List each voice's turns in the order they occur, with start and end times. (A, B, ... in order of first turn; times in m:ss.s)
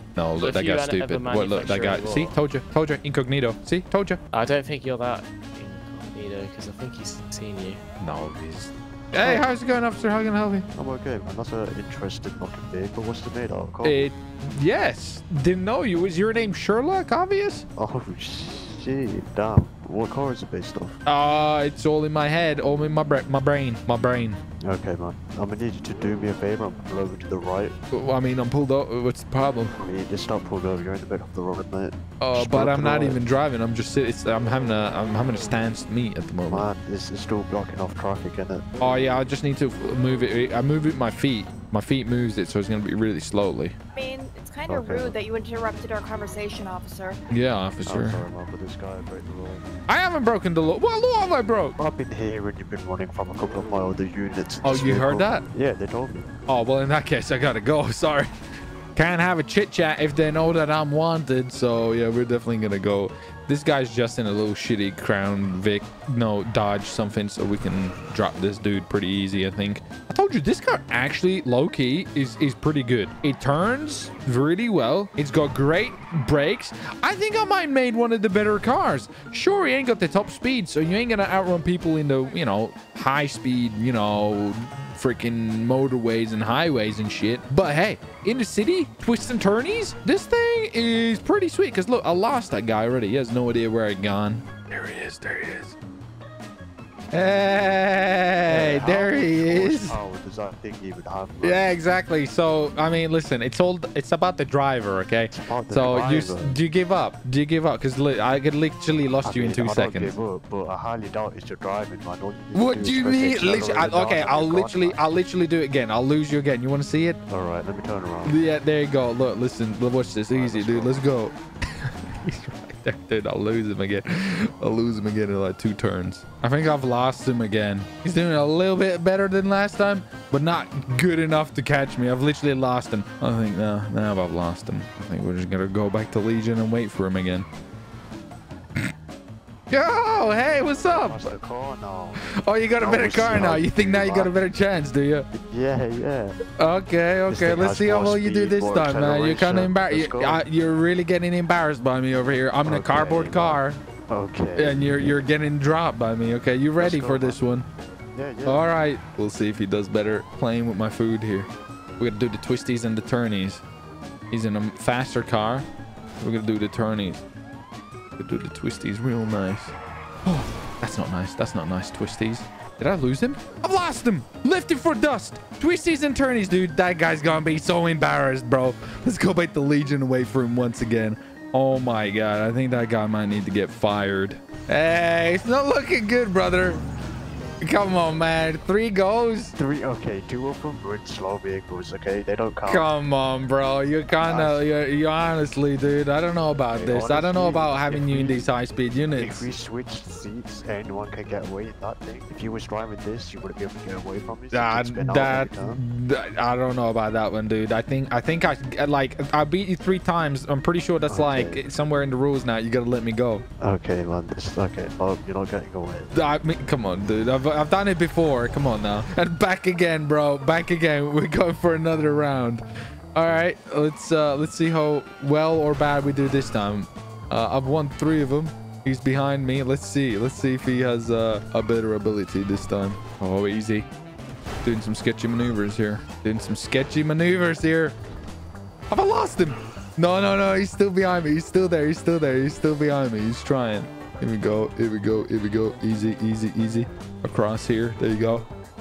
0:00.2-0:04.2 A
0:00.4-0:02.4 B
0:04.3-0:07.8 B
0:08.0-0:10.7 A
0:09.2-0:09.5 C
0:10.7-0:14.1 C
0:13.8-0:17.6 A
0:17.8-0:21.0 C
0:21.0-0:24.4 A
0:24.6-0:27.8 C
0:27.9-0:29.8 A
0:29.8-0:33.2 C
0:32.2-0:36.7 A
0:36.5-0:38.8 C
0:38.8-0:43.8 A
0:43.9-0:47.2 D
0:44.7-0:45.2 C
0:47.3-0:48.2 A
0:47.8-0:49.6 C
0:49.9-0:51.8 A
0:51.8-0:56.3 C
0:54.6-0:55.4 A
0:56.5-0:58.3 A
0:59.0-1:35.7 A
1:37.1-1:40.0 A
1:38.5-1:41.7 C
1:41.4-1:50.1 A
1:45.3-1:46.6 C
1:49.2-1:55.1 C
1:52.5-1:57.2 A
1:57.3-1:58.4 C
1:58.2-2:17.5 A
2:00.3-2:01.0 C
2:19.7-2:21.2 A
2:20.2-2:22.2 C
2:22.2-2:25.3 A
2:22.8-2:24.4 C
2:25.3-2:26.4 C
2:26.6-2:33.8 A
2:27.3-2:30.4 C
2:32.6-2:35.2 C
2:34.5-2:37.6 A
2:36.8-2:37.4 C
2:38.1-2:38.7 C
2:38.4-2:43.6 A
2:44.3-2:45.6 A
2:46.2-2:47.2 A
2:48.2-3:06.8 A
3:07.6-3:09.5 A
3:09.6-3:12.9 C
3:12.7-3:19.5 A
3:14.1-3:14.6 C
3:16.7-3:18.5 C
3:19.1-3:25.8 C
3:24.5-3:33.4 A
3:31.1-3:31.6 C
3:33.6-3:36.1 C
3:36.1-3:42.6 A
3:43.1-3:53.9 A
3:54.6-3:57.9 A
3:58.9-4:08.5 A